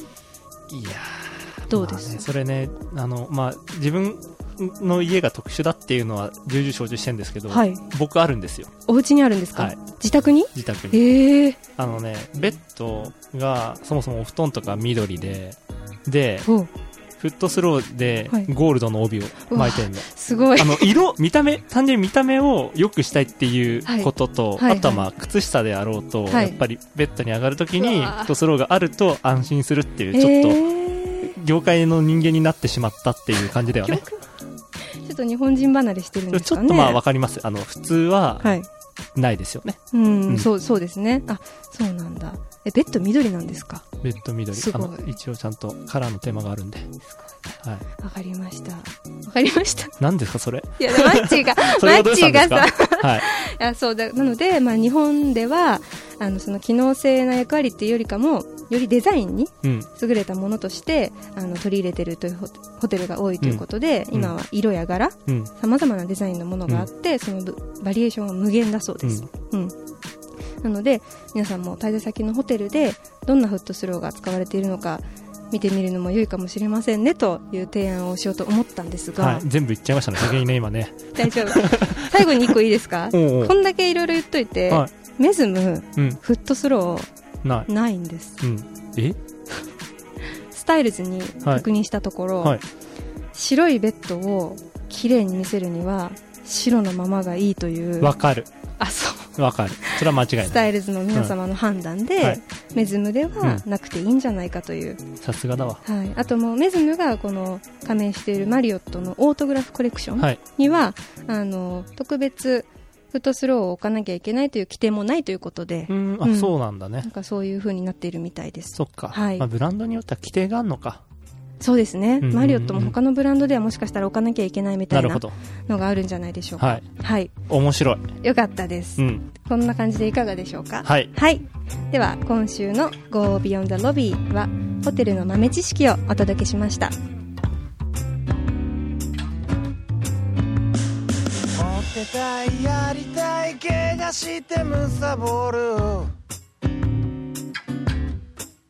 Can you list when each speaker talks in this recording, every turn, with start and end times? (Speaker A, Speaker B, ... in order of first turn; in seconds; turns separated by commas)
Speaker A: 0.7-8.7, Speaker B: 1.7-2.2, Speaker B: 7.5-7.8, Speaker B: 8.9-11.6, Speaker A: 10.5-11.0, Speaker A: 11.8-16.5, Speaker B: 16.4-16.7, Speaker A: 17.2-30.6, Speaker B: 19.5-20.9, Speaker B: 23.9-25.1, Speaker B: 26.3-26.6, Speaker B: 27.8-28.3, Speaker B: 30.1-31.3, Speaker A: 31.2-34.0, Speaker B: 33.8-34.2, Speaker B: 34.9-37.0, Speaker A: 36.3-38.5, Speaker B: 38.4-38.7, Speaker A: 39.1-40.5, Speaker B: 39.9-43.9, Speaker A: 44.0-46.9, Speaker B: 44.5-45.1, Speaker B: 48.0-50.0, Speaker A: 50.0-53.2, Speaker B: 50.8-69.7, Speaker A: 63.4-64.3, Speaker B: 70.6-79.4, Speaker A: 79.2-82.5, Speaker B: 81.2-87.1, Speaker A: 83.1-83.5, Speaker A: 87.4-87.7, Speaker B: 87.7-88.4, Speaker A: 88.4-89.2, Speaker B: 90.5-92.6, Speaker B: 93.3-98.1, Speaker A: 98.0-98.5, Speaker B: 98.8-105.0, Speaker A: 99.3-100.6, Speaker A: 105.2-105.8, Speaker B: 105.8-119.4, Speaker A: 115.9-117.1, Speaker A: 118.8-121.0, Speaker B: 121.6-127.3, Speaker A: 122.2-122.9, Speaker A: 124.9-125.3, Speaker A: 126.6-126.8, Speaker A: 127.5-128.0, Speaker B: 128.2-136.9, Speaker A: 129.0-129.2, Speaker A: 130.8-131.1, Speaker C: 141.6-146.1